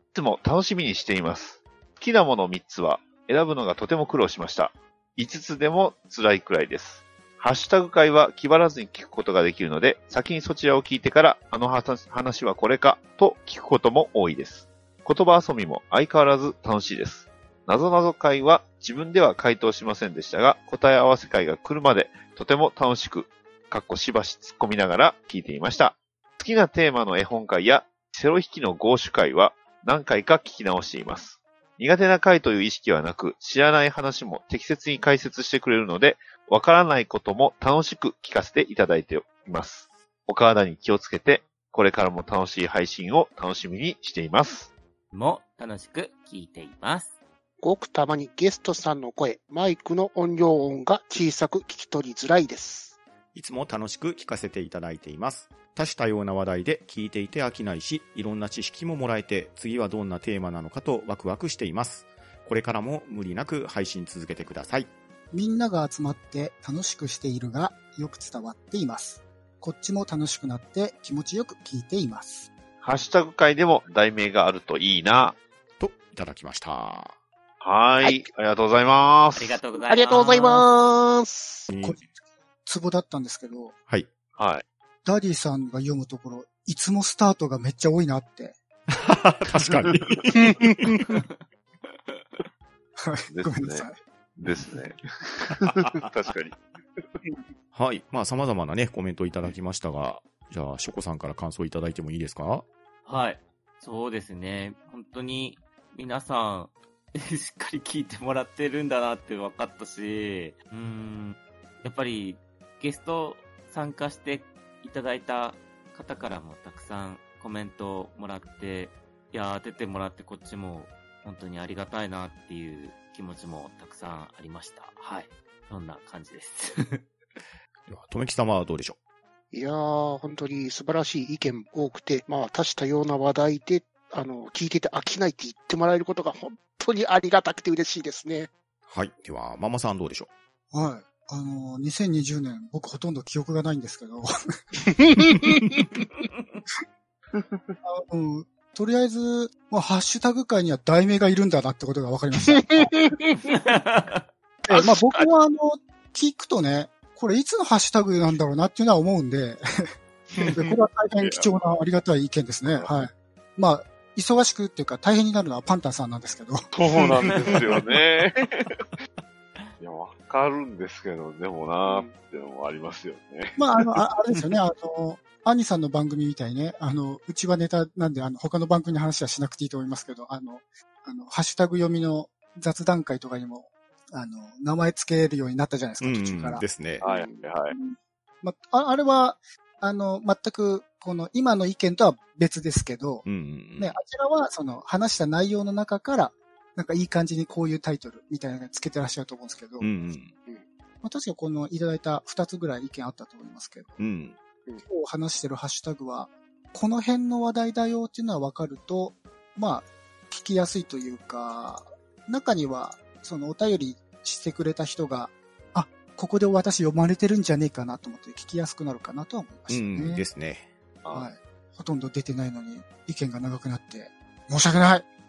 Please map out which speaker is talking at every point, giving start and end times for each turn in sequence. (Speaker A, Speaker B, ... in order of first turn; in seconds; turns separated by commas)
Speaker A: 0.1-44.7, Speaker B: 45.1-47.1, Speaker C: 47.6-53.0, Speaker D: 53.3-64.9, Speaker E: 65.3-72.5, Speaker A: 72.8-75.4, Speaker D: 75.8-77.1, Speaker A: 77.6-79.6, Speaker C: 78.0-78.2, Speaker B: 79.4-80.6, Speaker C: 79.9-81.7, Speaker D: 81.7-82.0, Speaker E: 81.8-82.0, Speaker E: 82.6-83.7, Speaker A: 84.3-84.6, Speaker E: 85.0-88.6, Speaker D: 88.9-91.0, Speaker C: 90.5-90.8, Speaker E: 93.0-94.0, Speaker A: 93.3-96.6, Speaker D: 95.7-96.0, Speaker D: 97.7-102.6, Speaker B: 103.0-127.0, Speaker D: 127.9-129.0, Speaker C: 129.5-138.5, Speaker D: 138.9-140.3, Speaker E: 140.7-144.3, Speaker E: 147.8-153.0, Speaker C: 152.5-153.4, Speaker B: 153.5-154.2, Speaker E: 154.7-159.6, Speaker C: 154.7-155.3, Speaker C: 160.3-160.8, Speaker E: 160.4-166.7, Speaker A: 161.2-161.5, Speaker A: 166.7-168.9, Speaker A: 169.8-173.7, Speaker C: 171.8-172.1, Speaker E: 173.6-186.6, Speaker D: 186.0-187.0, Speaker A: 187.0-187.8, Speaker C: 187.0-187.4, Speaker E: 187.7-193.2, Speaker D: 193.2-193.9, Speaker E: 193.8-199.9, Speaker D: 199.8-200.3, Speaker E: 201.0-204.0, Speaker D: 204.0-204.3, Speaker E: 204.8-220.2, Speaker D: 219.7-220.7, Speaker A: 221.0-221.3, Speaker E: 221.1-225.1